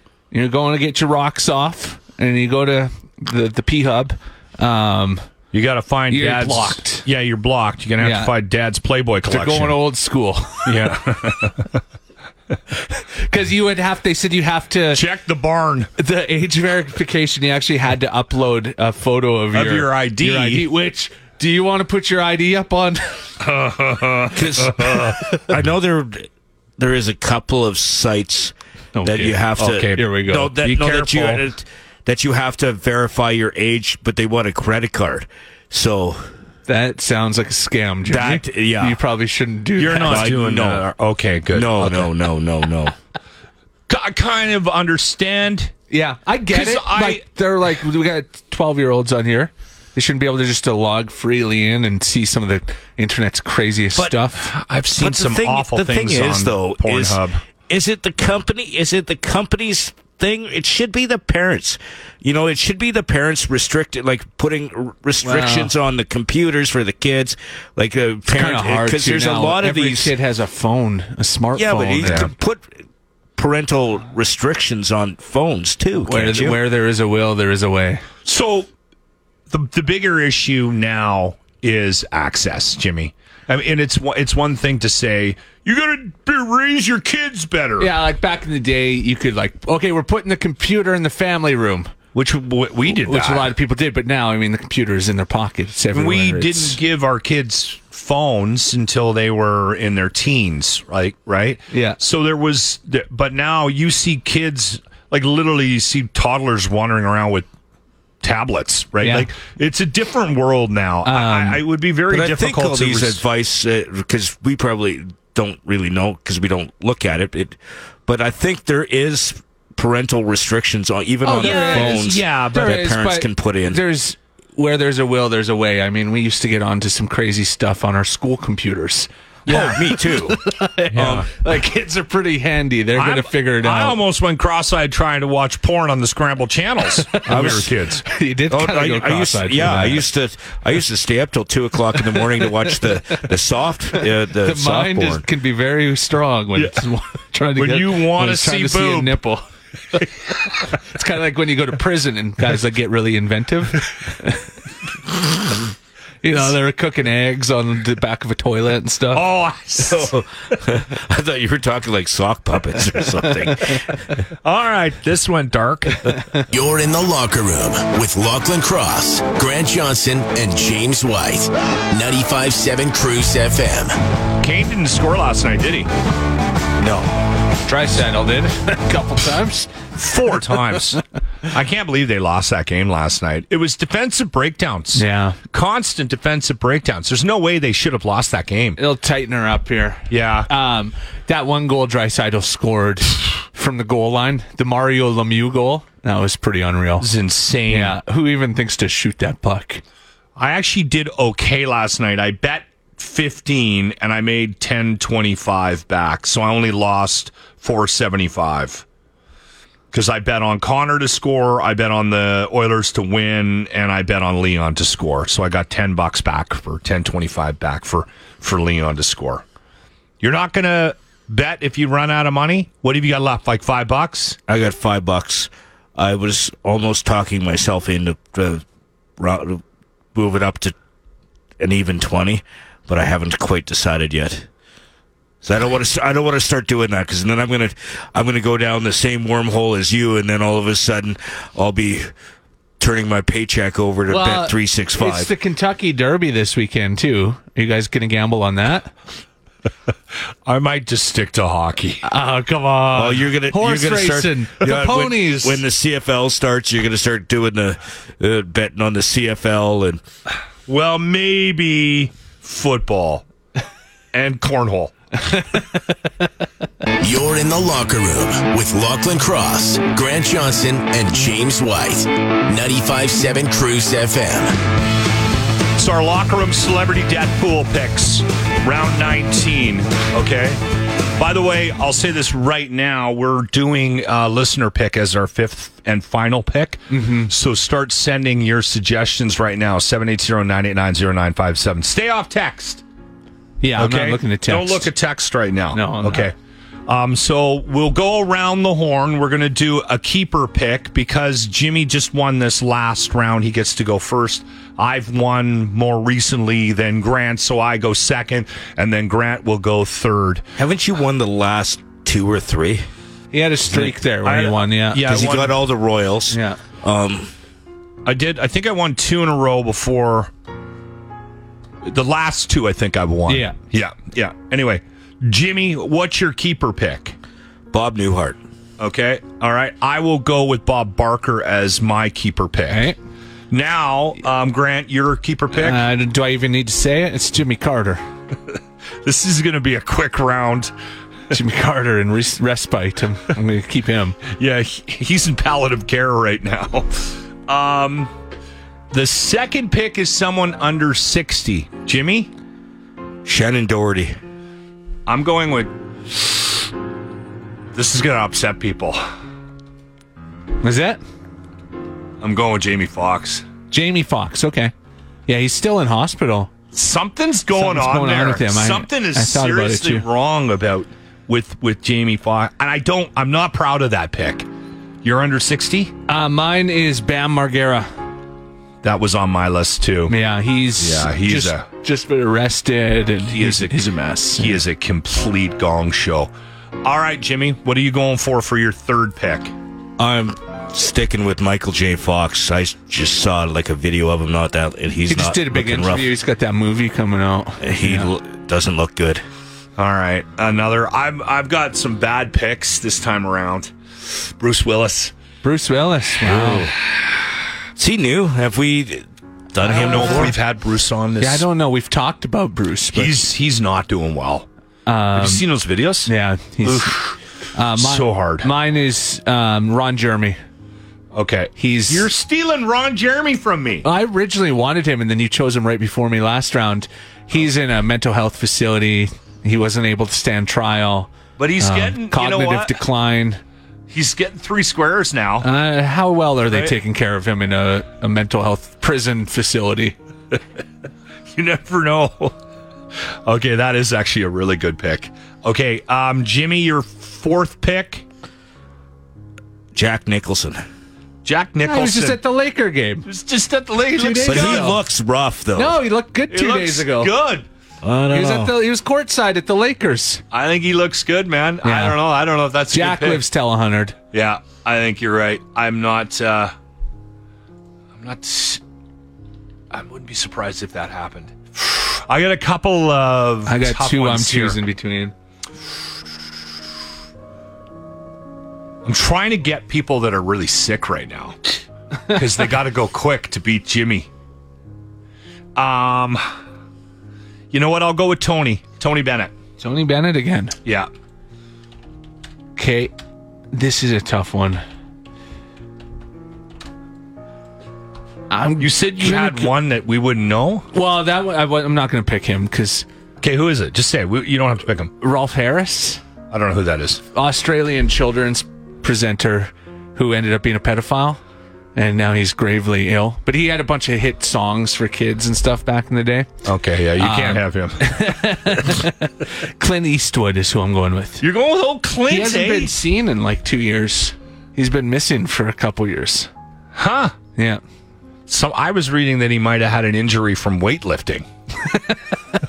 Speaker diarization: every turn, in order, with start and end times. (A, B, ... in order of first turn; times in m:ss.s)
0:00.3-0:05.2 A
0:05.5-0:09.8 B
0:06.1-0:07.0 A
0:08.0-0:08.3 A
0:09.2-0:10.7 A
0:10.6-0:11.7 B
0:13.0-0:15.0 A
0:14.9-0:15.9 B
0:16.0-0:23.2 A
0:19.5-0:20.7 B
0:23.4-0:25.2 B
0:24.3-0:36.3 C
0:28.9-0:29.4 A
0:29.6-0:30.0 B
0:29.9-0:30.5 A
0:30.6-0:31.4 B
0:36.7-0:40.2 A
0:38.1-0:39.0 C
0:39.8-0:42.1 B
0:40.0-0:40.8 C
0:41.5-0:42.9 C
0:43.9-0:45.7 B
0:45.9-0:54.5 A
0:46.5-0:47.2 B
0:54.0-0:57.4 B
0:55.0-1:10.1 C
1:05.2-1:05.7 A
1:08.3-1:12.3 A
1:11.5-1:12.7 C
1:12.0-1:12.3 B
1:13.4-1:16.6 C
1:16.0-1:18.0 A
1:18.2-1:18.7 B
1:19.5-1:27.9 B
1:27.8-1:31.9 A
1:32.1-1:33.5 B
1:32.9-1:36.8 A
1:35.9-1:47.5 B
1:41.7-1:42.0 A
1:48.2-1:53.2 B
1:49.0-1:49.3 A
1:51.0-1:51.6 A
1:52.1-2:03.8 C
2:01.2-2:14.0 A
2:01.4-2:02.8 B
2:09.5-2:10.4 C
2:09.5-2:09.8 B
2:10.9-2:11.3 C
2:10.9-2:11.2 B
2:13.0-2:18.0 B
2:17.0-2:20.0 A
2:17.3-2:17.7 C
2:18.5-2:25.2 C
2:22.0-2:22.7 A
2:24.0-2:30.0 A
2:27.6-2:29.2 B
2:30.6-2:34.4 A
2:36.2-2:39.2 A
2:39.1-2:40.2 B
2:39.9-2:44.0 C
2:44.4-2:46.2 B
2:46.5-2:53.9 D
2:54.4-2:55.9 B
2:57.6-2:59.7 A
3:00.0-3:08.8 B
3:04.9-3:05.4 A
3:08.8-3:17.1 A
3:10.1-3:10.5 B
3:17.0-3:18.0 B
3:17.7-3:19.8 A
3:20.4-3:28.8 B
3:29.9-3:39.4 B
3:40.2-3:44.4 B
3:44.5-3:48.6 C
3:49.2-3:49.6 C
3:50.1-3:50.7 C
3:51.6-3:54.5 C
3:55.4-4:02.1 C
4:02.8-4:05.3 C
4:04.1-4:08.9 A
4:10.4-4:12.0 B
4:12.0-4:15.5 A
4:12.9-4:20.0 C
4:20.7-4:23.2 B
4:24.1-4:24.9 B
4:27.0-4:34.6 D
4:35.8-4:40.6 B
4:41.2-4:52.8 B
4:46.9-4:47.3 A
4:53.6-4:54.9 A
4:53.8-4:56.3 B
4:55.7-4:56.3 A
4:56.9-5:10.4 B
5:10.6-5:12.9 C
5:13.3-5:15.1 A
5:13.8-5:15.6 B
5:15.0-5:17.3 C
5:16.3-5:16.6 A
5:18.0-5:20.3 B
5:21.8-5:27.2 B
5:23.3-5:23.6 A
5:27.7-5:28.4 C
5:28.8-5:32.9 B
5:32.7-5:33.0 A
5:33.5-5:35.8 B
5:35.6-5:38.0 A
5:39.0-5:40.7 B
5:41.3-5:44.2 A
5:44.3-5:48.1 B
5:48.9-5:52.3 B
5:53.2-5:54.2 C
5:55.1-5:56.4 B
5:57.7-5:59.0 B
6:00.6-6:01.0 A
6:02.2-6:03.4 B
6:03.7-6:04.7 A
6:05.3-6:06.5 A
6:06.7-6:14.4 B
6:07.5-6:10.0 A
6:15.0-6:15.9 B
6:16.1-6:17.9 A
6:18.8-6:20.1 B
6:20.1-6:24.6 A
6:20.8-6:21.6 B
6:23.3-6:23.8 B
6:24.3-6:26.3 B
6:26.8-6:29.5 B
6:30.0-6:36.1 C
6:35.0-6:38.1 A
6:37.6-6:39.2 C
6:39.8-6:45.1 B
6:45.4-6:46.7 A
6:46.2-6:46.7 C
6:47.8-6:50.3 C
6:49.6-6:50.3 A
6:49.7-6:51.4 B
6:51.2-6:53.2 A
6:52.9-6:54.5 B
6:54.9-6:55.4 A
6:55.1-6:56.1 B
6:56.0-6:56.9 A
6:56.6-6:57.2 B
6:57.5-7:00.4 A
6:57.8-6:58.5 B
7:01.1-7:03.8 B
7:01.6-7:02.1 A
7:03.8-7:13.4 A
7:11.4-7:12.8 B
7:13.9-7:15.5 B
7:15.4-7:19.9 A
7:21.3-7:22.3 B
7:23.2-7:28.0 B
7:29.7-7:30.6 C
7:31.2-7:32.2 B
7:31.6-7:33.0 A
7:33.0-7:34.8 B
7:33.9-7:34.8 A
7:34.2-7:35.8 C
7:35.6-7:37.1 A
7:36.3-7:37.4 B
7:37.8-7:38.5 C
7:38.1-7:40.2 A
7:40.3-7:43.2 B
7:41.6-7:42.0 A
7:42.7-7:43.9 A
7:44.1-7:46.5 B
7:48.0-7:48.6 B
7:49.7-7:54.6 B
7:53.5-7:55.1 A
7:58.8-8:01.4 B
8:02.1-8:04.1 B
8:05.6-8:06.2 B
8:07.5-8:09.3 B
8:09.6-8:10.5 A
8:12.6-8:12.9 A
8:13.5-8:14.6 A
8:18.3-8:19.5 A
8:18.6-8:20.6 B
8:20.7-8:22.8 A
8:23.2-8:24.9 B
8:25.0-8:26.0 A
8:26.3-8:27.0 B
8:27.1-8:31.2 A
8:31.8-8:36.3 A
8:36.4-8:38.2 B
8:37.0-8:41.2 A
8:41.2-8:42.7 B
8:42.1-8:46.3 A
8:46.7-8:47.1 B
8:47.4-8:47.6 A
8:48.3-8:51.2 B